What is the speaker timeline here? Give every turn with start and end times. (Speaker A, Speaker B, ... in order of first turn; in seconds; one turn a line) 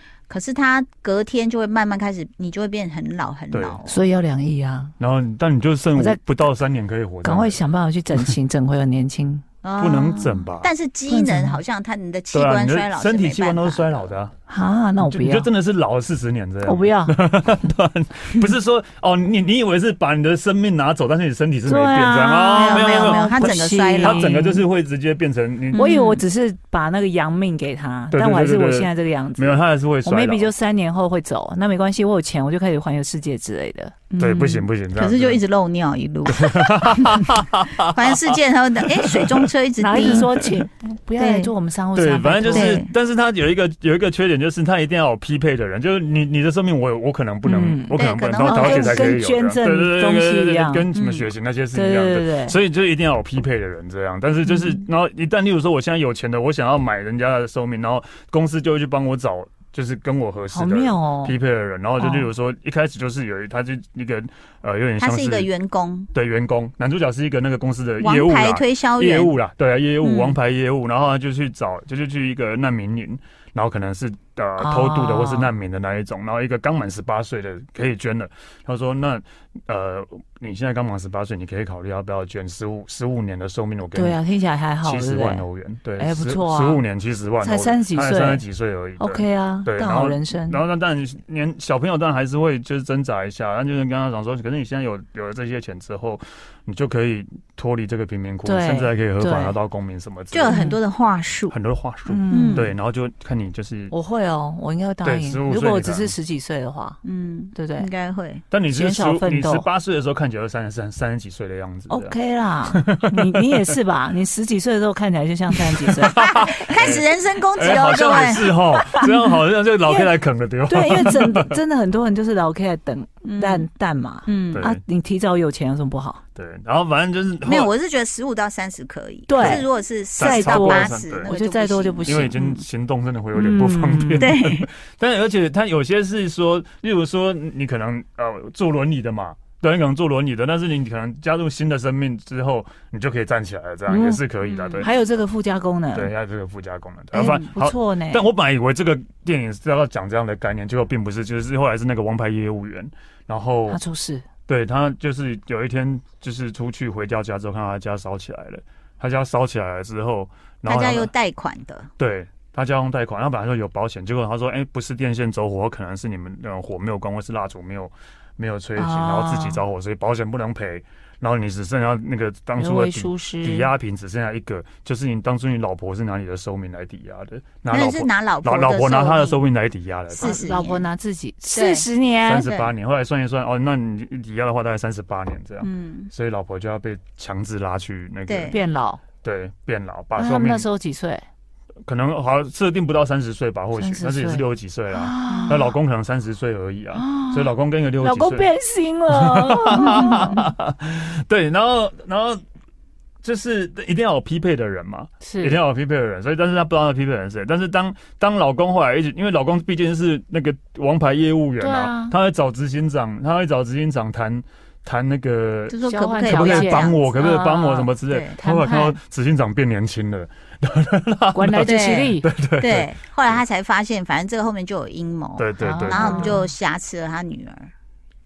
Speaker A: 0.3-4.0
Speaker B: 3.5-3.8
Speaker C: 3.9-4.9
Speaker B: 5.0-7.6
Speaker C: 5.9-6.2
Speaker C: 7.2-9.4
Speaker A: 9.6-14.2
Speaker B: 9.8-10.7
Speaker C: 11.1-11.6
Speaker B: 12.3-14.3
Speaker C: 14.5-15.5
Speaker B: 15.0-26.2
Speaker C: 16.6-17.1
Speaker C: 21.6-24.6
Speaker A: 22.5-24.3
Speaker A: 25.7-26.2
Speaker C: 25.8-34.1
Speaker B: 28.1-30.5
Speaker A: 34.1-37.3
Speaker B: 34.2-35.4
Speaker B: 36.3-38.4
Speaker A: 37.8-40.3
Speaker B: 39.0-40.6
Speaker C: 39.8-42.8
Speaker A: 41.2-41.5
Speaker B: 42.0-65.5
Speaker A: 42.5-42.9
Speaker C: 47.4-50.9
Speaker A: 48.0-49.1
Speaker A: 50.9-51.3
Speaker C: 51.7-52.6
Speaker C: 54.5-54.8
Speaker C: 60.5-61.4
Speaker C: 62.0-62.3
Speaker A: 65.0-66.1
Speaker B: 66.1-84.2
Speaker A: 68.0-69.3
Speaker A: 70.0-70.4
Speaker C: 74.6-75.5
Speaker C: 83.9-85.5
Speaker B: 84.8-100.6
Speaker C: 86.0-86.8
Speaker C: 87.4-88.4
Speaker C: 89.0-90.6
Speaker C: 98.5-99.6
Speaker A: 100.3-101.5
Speaker C: 100.5-100.8
Speaker B: 101.5-103.9
Speaker C: 102.1-102.7
Speaker A: 102.3-102.7
Speaker C: 103.9-107.0
Speaker B: 105.0-106.1
Speaker A: 107.0-108.4
Speaker C: 107.5-107.9
Speaker B: 108.5-113.8
Speaker C: 108.7-109.7
Speaker C: 111.9-116.6
Speaker B: 115.5-121.6
Speaker A: 116.1-119.0
Speaker C: 118.9-126.2
Speaker A: 123.2-123.7
Speaker A: 124.2-124.7
Speaker B: 124.5-124.8
Speaker B: 126.4-127.7
Speaker A: 127.4-132.6
Speaker C: 129.3-132.5
Speaker B: 129.4-129.7
Speaker B: 130.2-131.3
Speaker B: 132.0-144.9
Speaker C: 133.3-134.4
Speaker A: 134.2-134.7
Speaker C: 143.9-144.2
Speaker A: 144.4-144.9
Speaker C: 144.8-146.1
Speaker B: 145.9-153.8
Speaker C: 147.1-148.2
Speaker C: 153.7-154.2
Speaker B: 154.5-161.1
Speaker A: 160.7-161.9
Speaker B: 162.0-180.5
Speaker C: 168.8-169.6
Speaker C: 172.6-173.7
Speaker A: 177.7-179.4
Speaker A: 180.1-180.8
Speaker C: 180.2-182.5
Speaker A: 181.5-181.9
Speaker B: 182.2-188.6
Speaker A: 182.4-182.7
Speaker A: 185.6-186.1
Speaker A: 188.3-188.6
Speaker C: 188.5-189.0
Speaker B: 189.2-190.7
Speaker C: 190.2-191.2
Speaker B: 191.9-198.5
Speaker C: 193.8-195.8
Speaker A: 195.3-195.6
Speaker C: 196.9-200.5
Speaker B: 199.1-202.4
Speaker A: 199.8-200.4
Speaker B: 203.2-223.4
Speaker C: 205.2-205.6
Speaker C: 211.6-212.1
Speaker A: 215.7-217.2
Speaker C: 215.9-219.0
Speaker A: 218.1-218.4
Speaker C: 221.3-222.2
Speaker A: 221.6-227.7
Speaker B: 225.4-226.4
Speaker C: 225.6-226.5